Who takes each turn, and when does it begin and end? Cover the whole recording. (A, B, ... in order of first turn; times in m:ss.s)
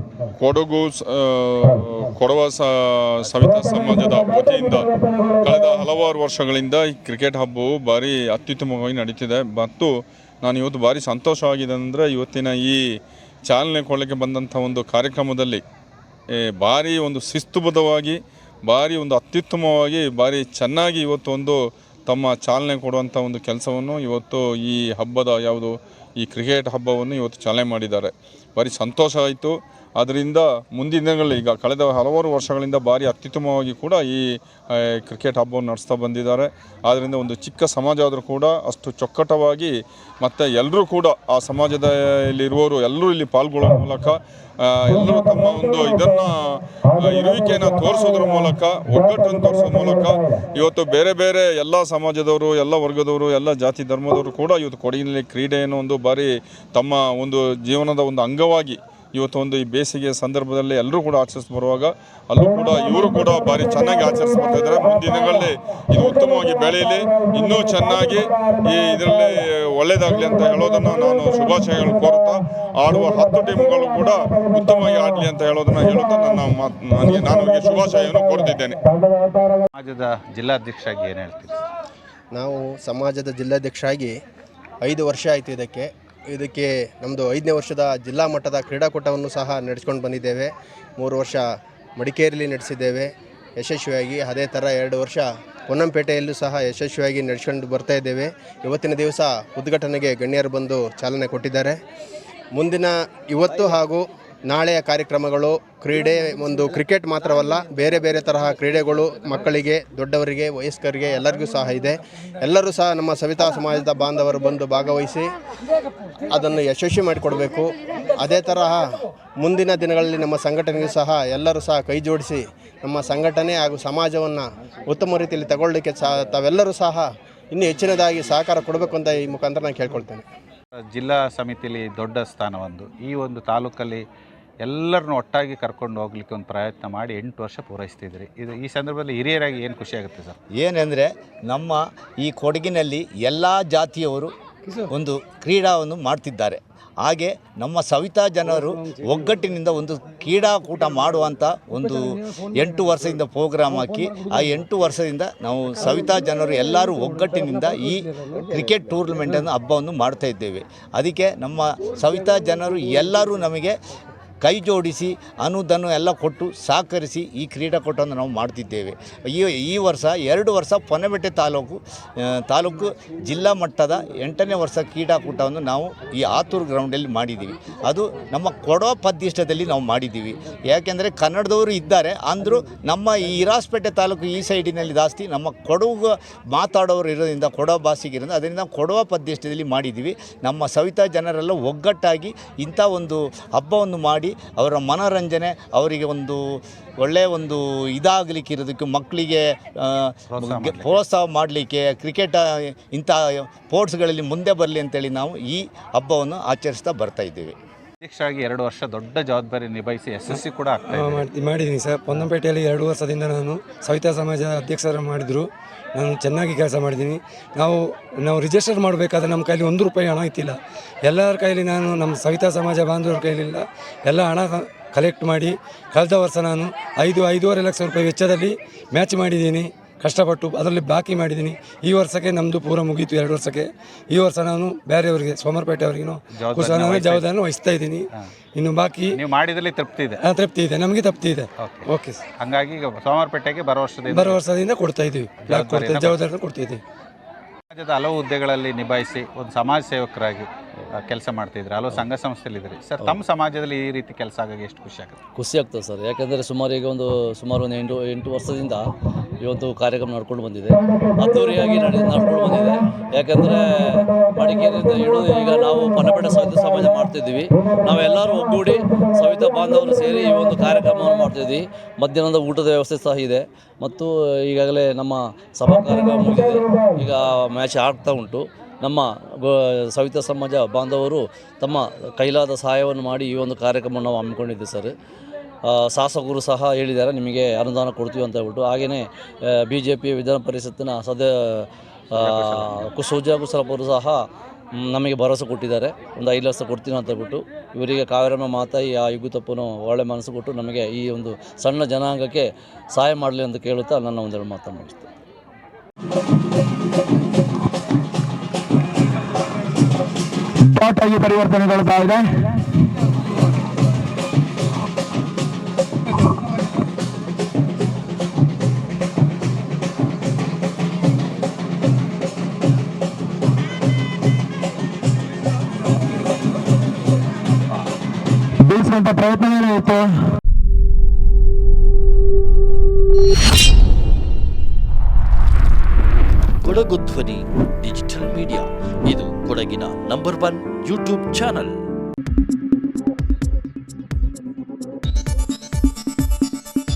0:00.4-0:12.8 A
0:13.4-0:15.6 A
0:16.4-0:34.2 A
0:34.7-1:18.8 A
1:19.8-1:21.6 B
1:22.3-1:24.1 C
1:24.8-1:31.4 C
1:32.0-1:41.8 C
1:42.6-1:55.2 C
1:56.3-1:58.8 C
1:59.4-2:10.2 C
2:10.9-2:14.0 B
2:14.6-2:20.4 B
2:20.6-2:43.8 D
2:44.4-3:27.6 D
3:20.3-3:21.0 B
3:28.0-3:31.3 B
3:31.0-3:58.0 E
3:56.4-3:57.3 B
3:58.6-3:59.1 E
3:59.1-4:00.2 B
4:00.2-4:02.2 E
4:01.6-4:04.4 B
4:04.1-4:06.8 E
4:05.4-4:06.2 B
4:07.7-4:15.2 B
4:15.4-4:18.8 F
4:19.4-4:44.9 F
4:45.7-4:49.1 F
4:49.6-4:51.7 F
4:52.2-4:52.9 B
4:52.2-4:54.2 F
4:54.9-5:05.1 F
5:10.7-5:12.3 G
5:28.6-5:30.1 G
5:36.6-5:41.8 H